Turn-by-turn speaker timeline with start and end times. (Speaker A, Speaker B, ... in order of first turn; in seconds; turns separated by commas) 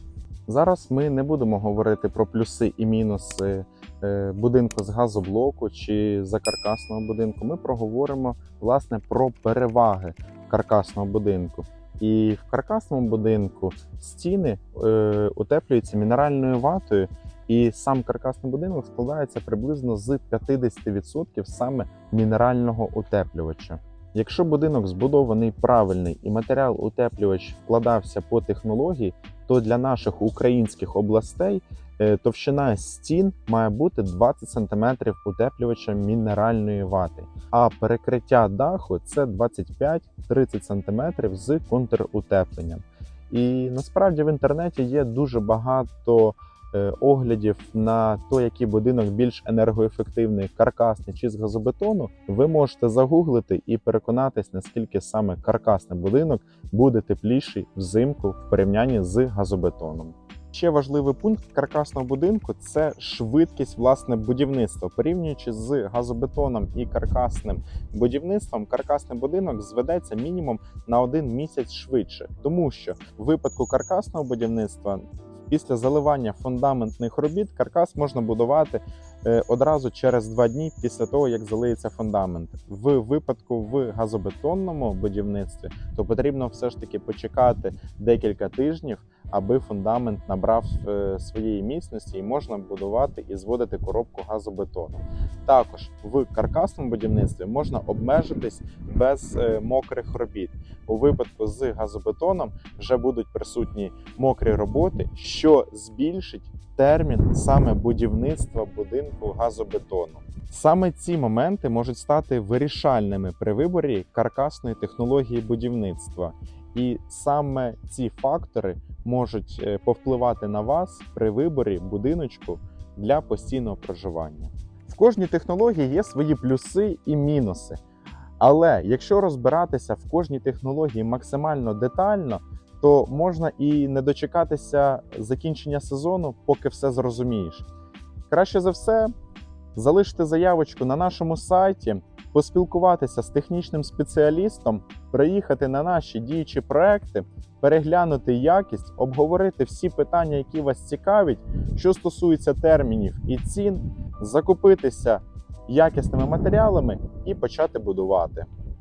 Speaker A: 0.5-127.8, Speaker A: 128.4-137.6, Speaker A: 138.3-139.1, Speaker A: 139.7-158.5